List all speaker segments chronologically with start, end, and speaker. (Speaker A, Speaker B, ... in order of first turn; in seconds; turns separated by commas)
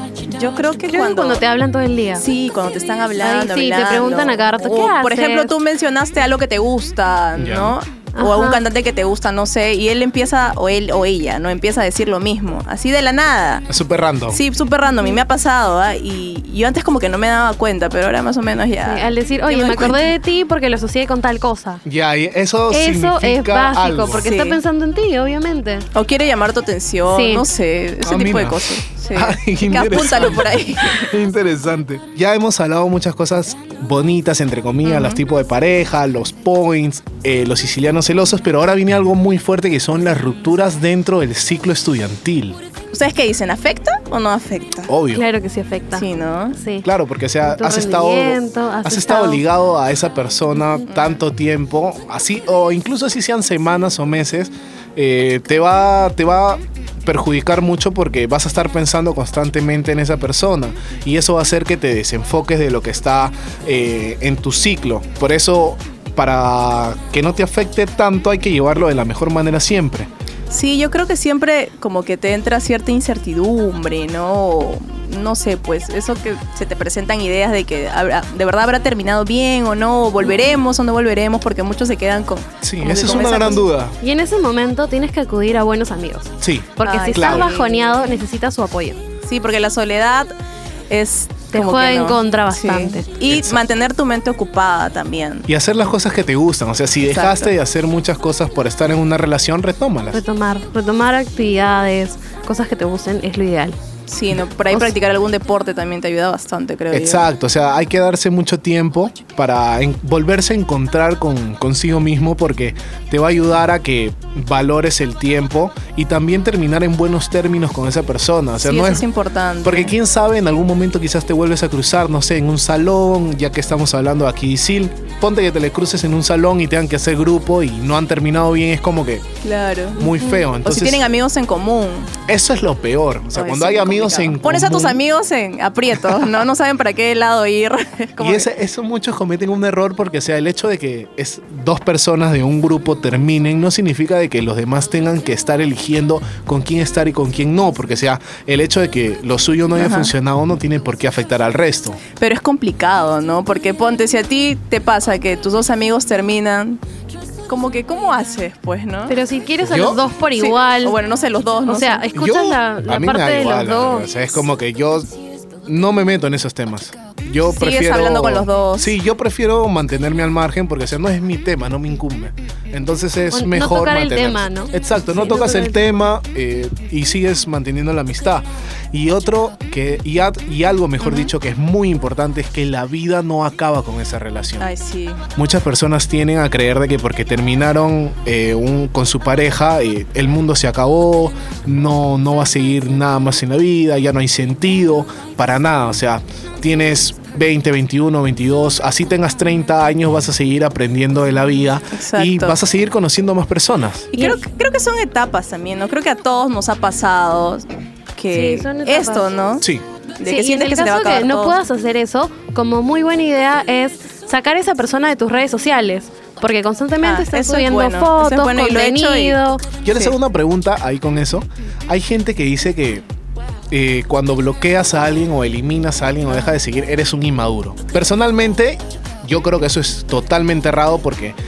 Speaker A: 0.3-1.4, Speaker B: 0.9-2.2, Speaker A: 2.2-13.7, Speaker B: 3.2-5.5, Speaker C: 7.4-7.8, Speaker B: 8.2-8.6, Speaker C: 13.7-14.4, Speaker A: 14.3-20.0, Speaker B: 18.8-21.8, Speaker C: 21.9-24.3, Speaker B: 22.7-25.9, Speaker A: 24.2-24.6, Speaker A: 25.9-31.1, Speaker B: 27.1-27.5, Speaker C: 28.0-42.6, Speaker A: 34.8-35.2, Speaker A: 42.9-44.9, Speaker C: 44.9-45.2, Speaker B: 45.1-46.9, Speaker A: 45.9-46.6, Speaker C: 46.8-70.1, Speaker B: 47.4-49.4, Speaker A: 70.5-83.7, Speaker C: 82.6-84.0, Speaker B: 82.8-89.0, Speaker C: 86.4-87.5, Speaker A: 86.8-88.2, Speaker A: 89.2-90.3, Speaker A: 90.9-95.5, Speaker B: 91.5-93.1, Speaker C: 93.3-93.6, Speaker C: 95.5-100.2, Speaker A: 97.1-97.5, Speaker B: 100.1-103.8, Speaker A: 104.1-107.3, Speaker C: 106.9-119.1, Speaker A: 118.6-119.9, Speaker C: 119.6-129.2, Speaker A: 129.4-132.1, Speaker C: 130.0-131.0, Speaker C: 132.2-135.0, Speaker A: 133.3-138.5, Speaker C: 138.2-152.0, Speaker A: 149.8-150.1, Speaker A: 152.2-156.8, Speaker A: 157.5-159.2, Speaker B: 159.1-161.0, Speaker C: 159.6-160.0, Speaker A: 160.3-162.1, Speaker B: 161.7-164.1, Speaker C: 162.1-165.1, Speaker C: 165.7-184.7, Speaker A: 167.5-168.9, Speaker B: 173.3-176.0, Speaker A: 184.6-185.2, Speaker C: 185.4-204.1, Speaker A: 202.0-202.6, Speaker A: 204.1-209.7, Speaker B: 208.3-209.3, Speaker A: 210.2-211.6, Speaker B: 210.3-219.6, Speaker A: 217.0-219.4, Speaker C: 219.8-223.1, Speaker C: 223.7-231.4